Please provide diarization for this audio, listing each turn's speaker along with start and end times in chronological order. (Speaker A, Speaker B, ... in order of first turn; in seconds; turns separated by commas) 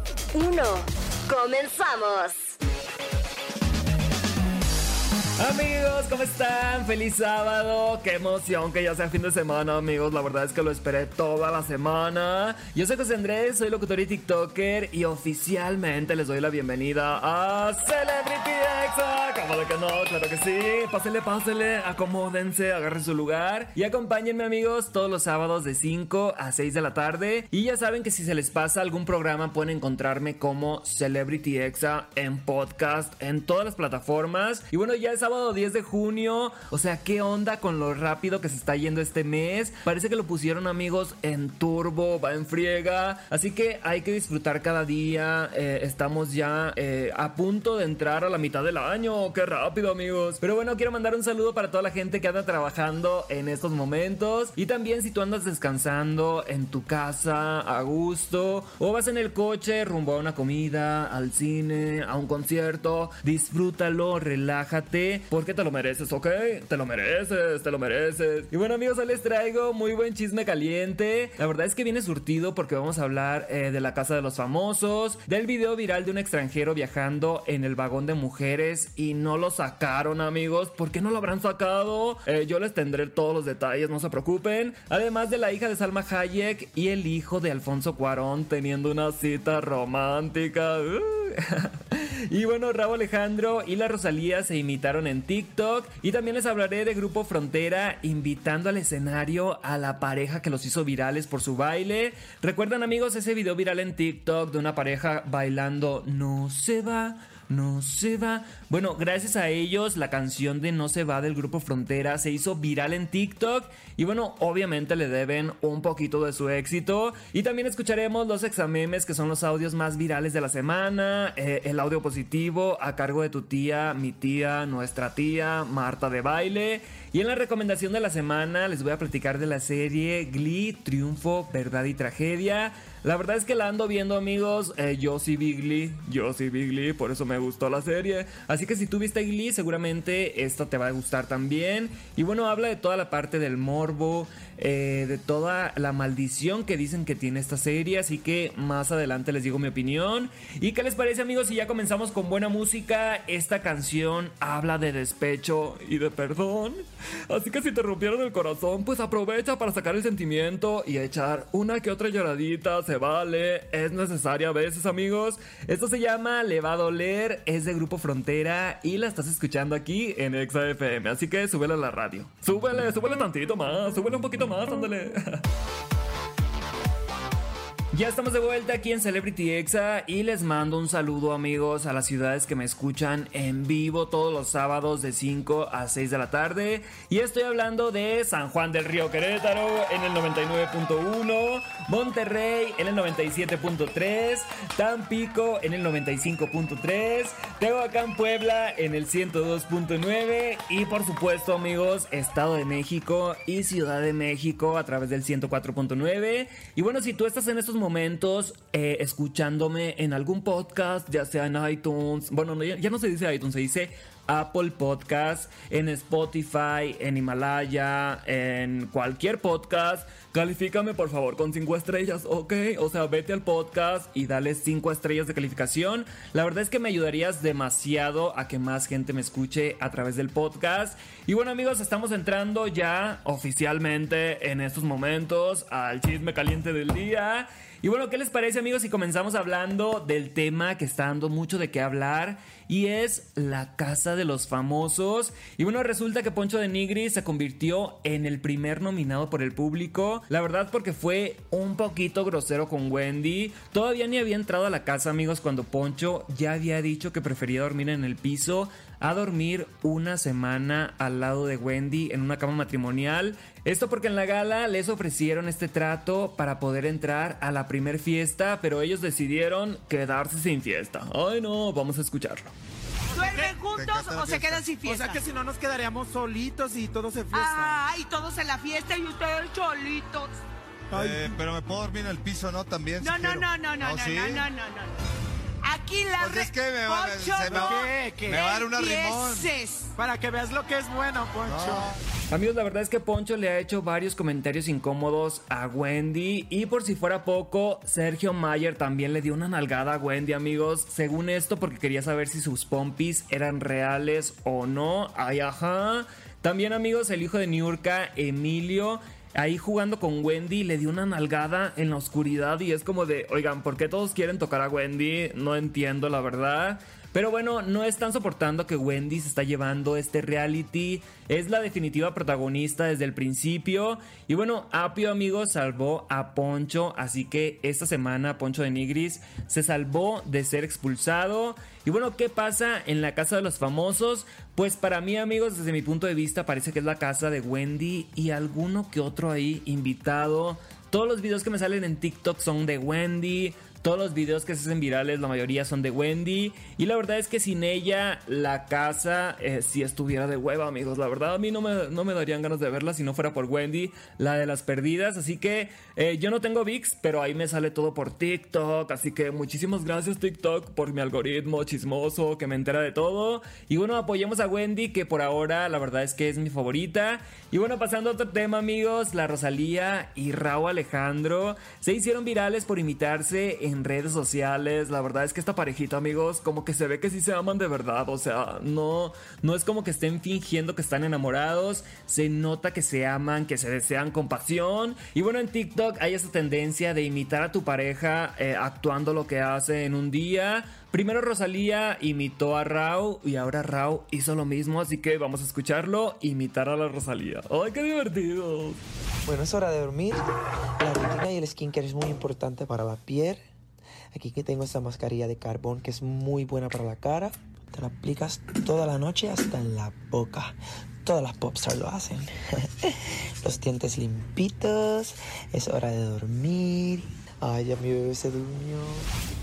Speaker A: 0.3-2.6, Speaker B: 5.4-175.4, Speaker B: 177.9-272.5, Speaker C: 273.1-275.2, Speaker D: 273.1-273.6, Speaker E: 273.8-274.6, Speaker D: 274.8-277.8, Speaker C: 277.3-280.4, Speaker D: 280.9-281.3, Speaker E: 280.9-284.5, Speaker C: 283.0-284.9, Speaker C: 285.6-289.9, Speaker E: 286.2-289.5, Speaker D: 287.5-288.5, Speaker D: 290.0-291.9, Speaker E: 291.5-291.9, Speaker B: 292.3-398.8, Speaker F: 399.2-400.2, Speaker F: 400.8-403.4, Speaker F: 404.1-419.1